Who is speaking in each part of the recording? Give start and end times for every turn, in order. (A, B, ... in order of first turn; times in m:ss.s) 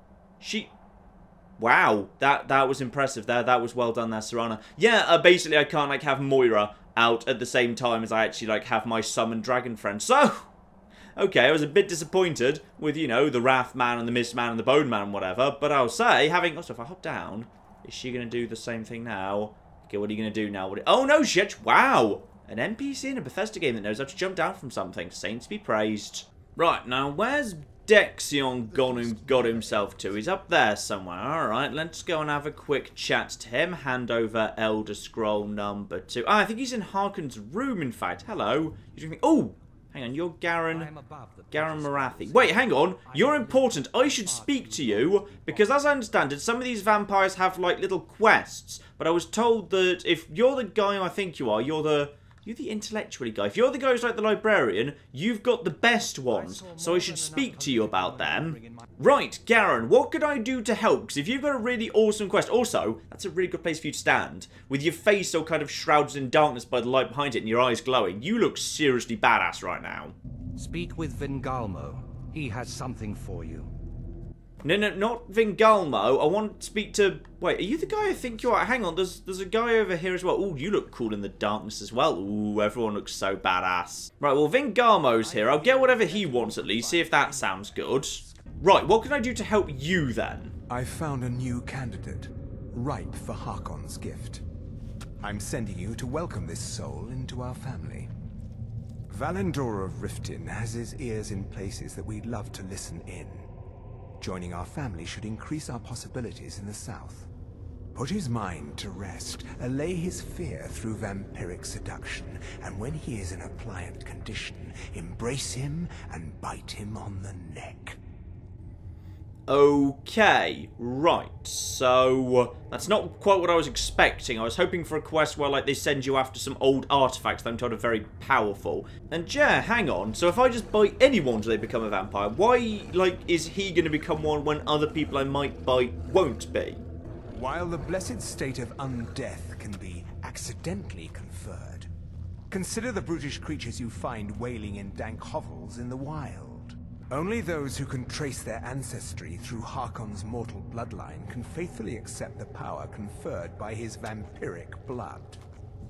0:00.4-0:00.7 A
0:01.6-0:10.5 A
0:11.2-0:40.9 A
0:40.7-0:45.7 B
0:41.5-1:10.2 A
0:56.2-0:58.9 B
1:10.6-1:13.7 B
1:14.6-1:30.5 A
1:18.1-1:18.4 B
1:25.2-1:28.2 B
1:30.7-1:34.4 C
1:35.2-1:38.1 C
1:39.1-1:43.5 C
1:44.2-1:47.3 C
1:47.9-1:58.0 C
1:59.5-2:16.8 A
2:17.3-2:21.9 C
2:22.5-2:35.4 C